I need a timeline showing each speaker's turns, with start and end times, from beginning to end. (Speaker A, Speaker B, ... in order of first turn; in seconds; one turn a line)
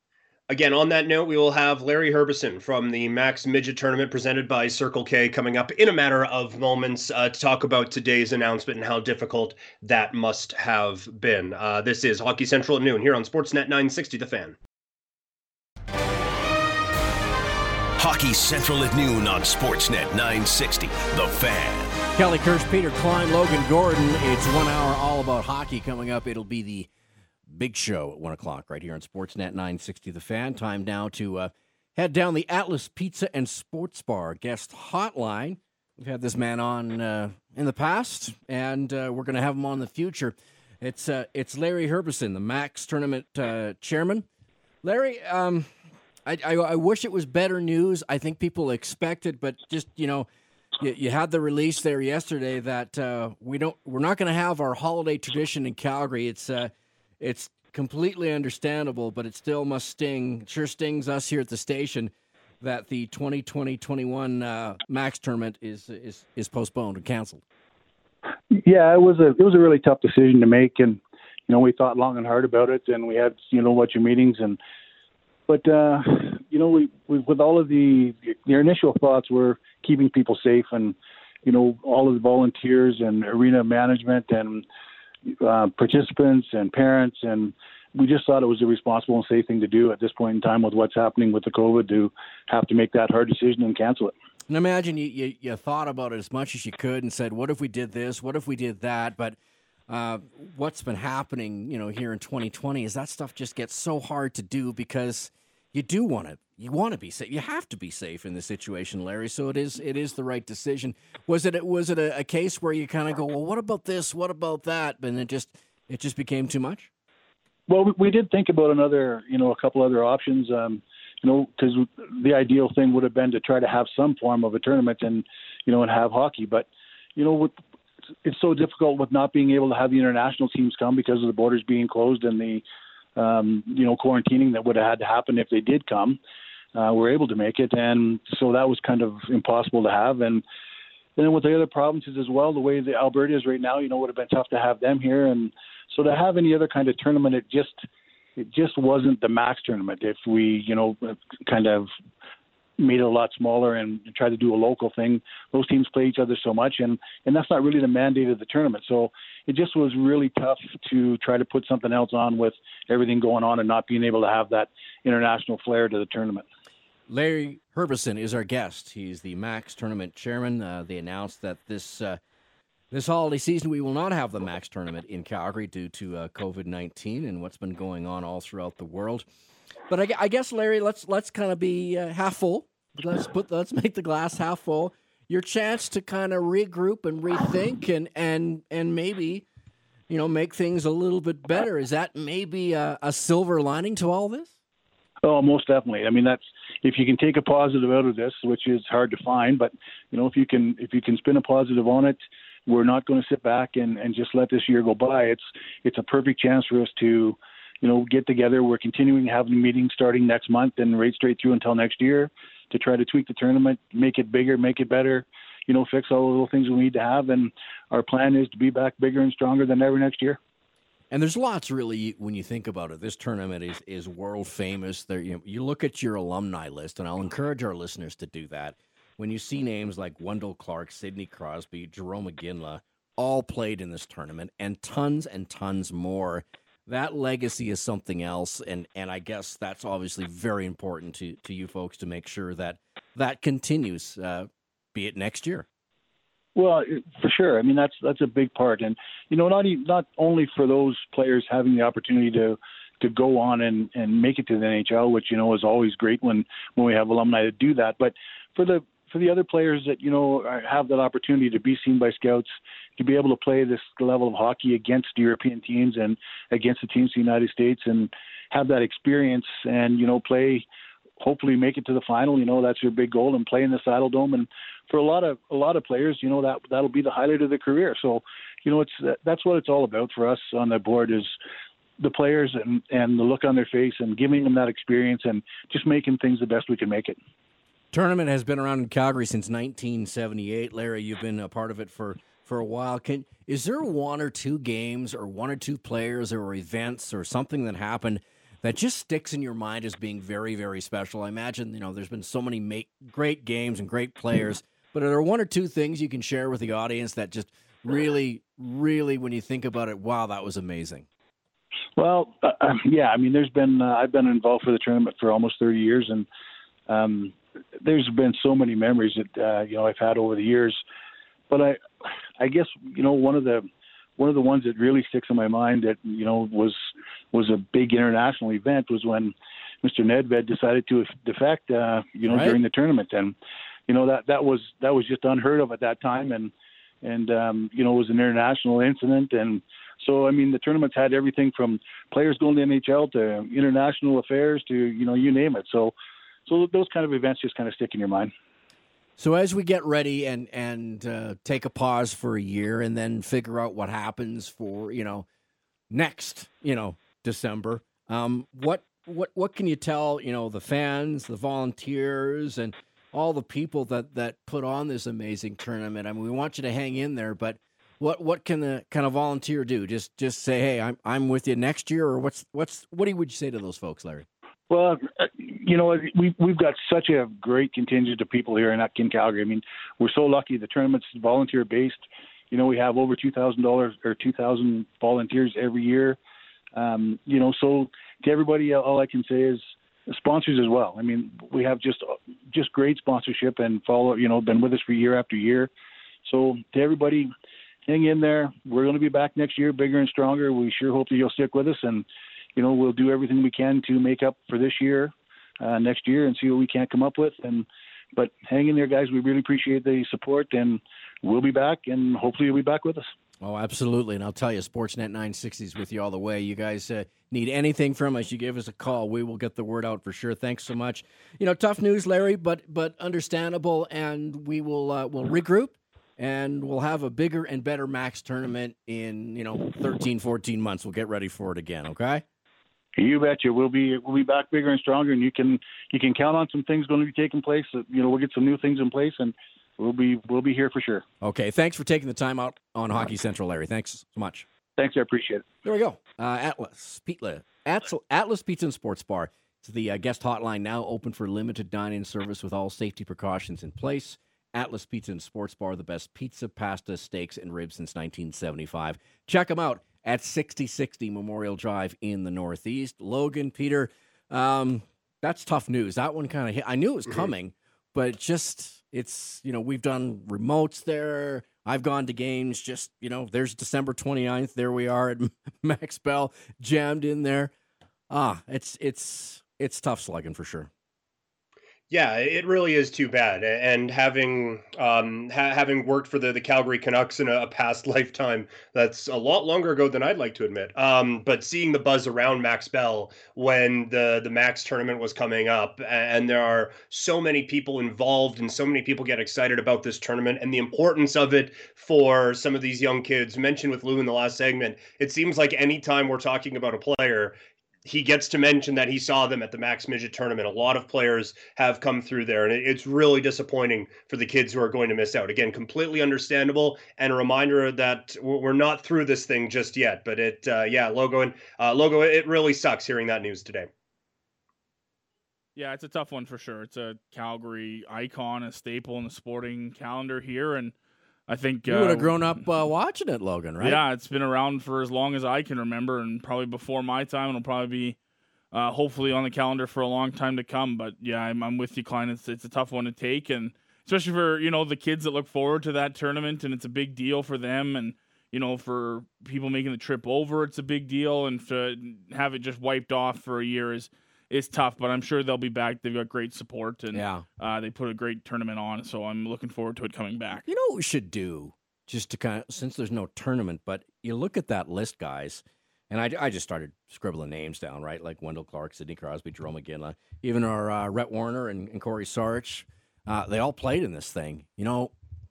Speaker A: 0.5-14.6
Speaker B: 18.0-22.0
Speaker C: 22.1-26.9
Speaker C: 27.5-44.2
Speaker C: 44.8-45.7
Speaker C: 46.2-50.3
Speaker C: 50.8-67.4
Speaker D: 68.5-74.6
Speaker D: 75.5-84.6
Speaker D: 85.4-94.1
Speaker C: 94.5-99.3
Speaker C: 99.9-116.9
Speaker D: 117.7-127.5
Speaker D: 128.2-132.6
Speaker D: 133.2-136.2
Speaker D: 136.7-140.4
Speaker D: 141.2-147.8
Speaker D: 148.4-151.9
Speaker D: 152.8-166.4
Speaker C: 167.1-172.2
Speaker C: 172.9-179.2
Speaker C: 179.9-189.4
Speaker C: 190.1-194.5
Speaker D: 195.2-220.4
Speaker C: 221.1-245.7
Speaker D: 246.6-270.6
Speaker D: 271.2-281.4
Speaker D: 282.0-287.2
Speaker C: 287.9-311.1
Speaker D: 312.0-316.3
Speaker D: 316.9-320.8
Speaker D: 321.5-321.8
Speaker D: 322.4-323.7
Speaker D: 324.2-326.8
Speaker D: 327.3-333.3
Speaker C: 332.2-332.6
Speaker D: 333.9-336.5
Speaker D: 337.0-345.9
Speaker D: 346.5-348.3
Speaker C: 349.2-355.2
Speaker C: 355.9-374.2
Speaker D: 374.7-386.2
Speaker D: 386.8-395.7
Speaker D: 396.2-397.3
Speaker D: 397.9-413.1
Speaker C: 413.4-432.2
Speaker D: 433.0-441.0
Speaker C: 441.2-444.5
Speaker D: 444.8-445.4
Speaker C: 445.6-477.5
Speaker C: 478.1-480.7
Speaker A: 481.9-523.7
Speaker E: 525.5-530.7
Speaker E: 531.3-532.4
Speaker C: 531.6-533.8
Speaker E: 533.6-538.0
Speaker E: 538.5-560.4
Speaker C: 556.9-557.2
Speaker C: 560.5-574.9